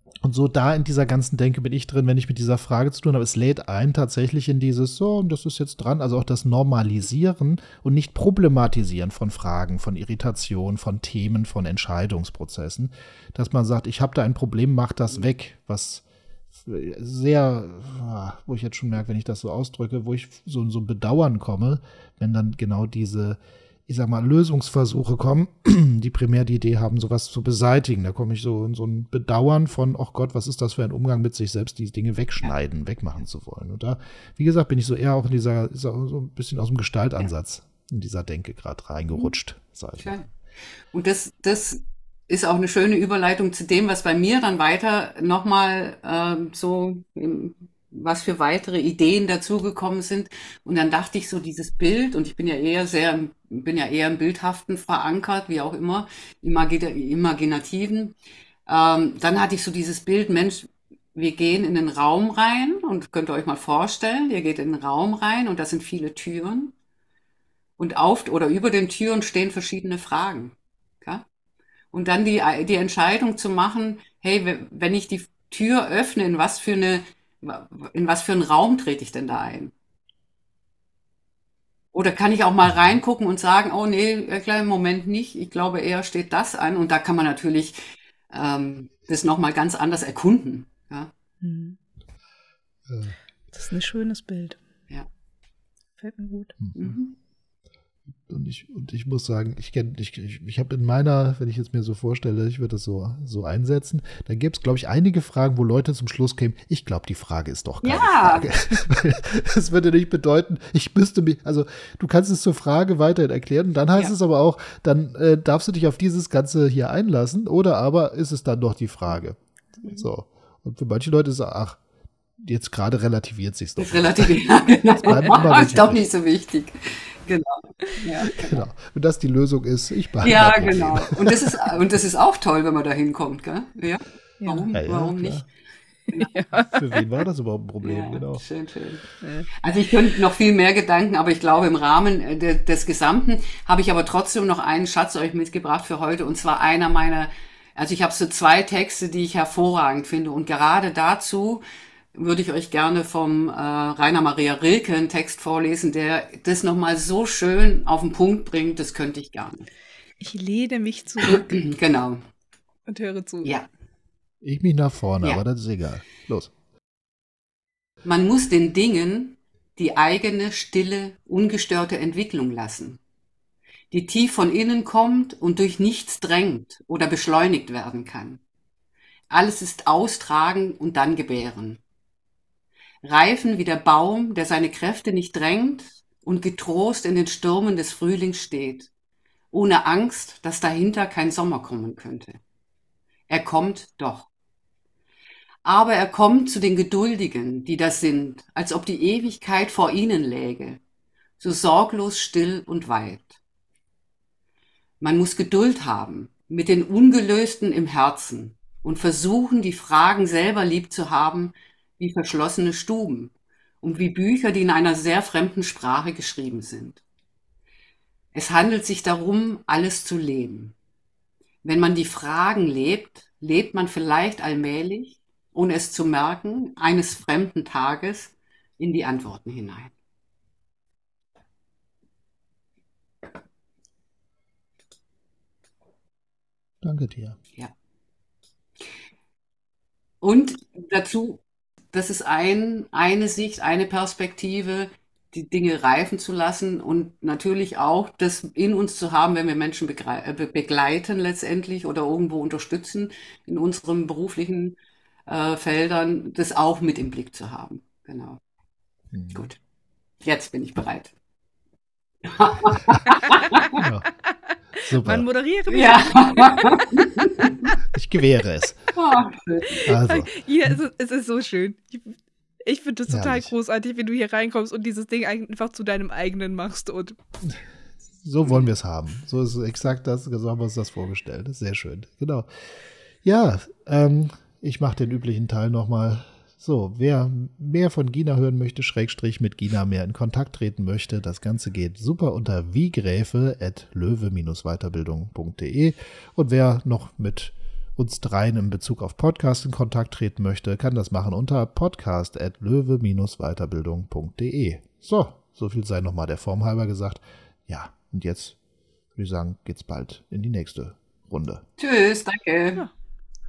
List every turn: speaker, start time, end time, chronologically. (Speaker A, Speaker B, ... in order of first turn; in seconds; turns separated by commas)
Speaker A: 0.2-16.1, Speaker A: 16.6-40.2, Speaker B: 40.0-40.3, Speaker B: 40.9-58.1, Speaker B: 58.7-66.7, Speaker B: 67.8-71.2, Speaker B: 71.9-79.7, Speaker B: 81.9-87.8, Speaker A: 82.6-83.0, Speaker B: 88.3-91.1, Speaker C: 91.4-91.8, Speaker A: 92.9-93.2, Speaker C: 93.5-94.6, Speaker C: 96.0-96.6, Speaker A: 96.6-97.0, Speaker B: 96.8-97.1, Speaker A: 98.3-121.8, Speaker B: 107.8-108.5, Speaker A: 122.4-124.4, Speaker B: 123.8-128.7, Speaker A: 124.9-126.0, Speaker A: 128.4-131.4, Speaker B: 130.2-135.4, Speaker C: 134.4-134.7, Speaker A: 134.7-135.5, Speaker B: 136.1-136.5, Speaker C: 136.1-136.8, Speaker A: 136.6-138.4, Speaker B: 137.8-139.0, Speaker C: 139.2-139.5, Speaker B: 139.6-151.6, Speaker B: 152.1-159.7, Speaker C: 160.2-161.5, Speaker B: 161.2-162.2, Speaker C: 162.9-163.6, Speaker A: 164.4-166.5, Speaker B: 168.0-173.0, Speaker B: 173.9-178.4, Speaker B: 179.3-181.8, Speaker B: 183.0-188.9, Speaker B: 189.5-192.4, Speaker B: 193.3-194.3, Speaker B: 195.6-200.8, Speaker B: 201.4-203.4, Speaker B: 205.0-217.0, Speaker B: 218.3-220.8, Speaker B: 221.6-229.9, Speaker A: 236.8-237.4, Speaker B: 240.2-241.4, Speaker B: 241.9-254.8, Speaker B: 255.3-258.4, Speaker A: 259.1-259.5, Speaker B: 260.2-261.1, Speaker B: 262.3-263.8, Speaker A: 263.8-264.1, Speaker A: 264.8-265.3, Speaker C: 264.9-267.7, Speaker B: 265.7-267.3, Speaker A: 267.9-268.8, Speaker B: 268.9-269.8, Speaker C: 269.9-277.2, Speaker A: 269.9-270.8, Speaker A: 273.1-273.5, Speaker A: 278.2-282.5, Speaker A: 283.2-308.6, Speaker A: 309.1-311.6, Speaker B: 311.8-312.8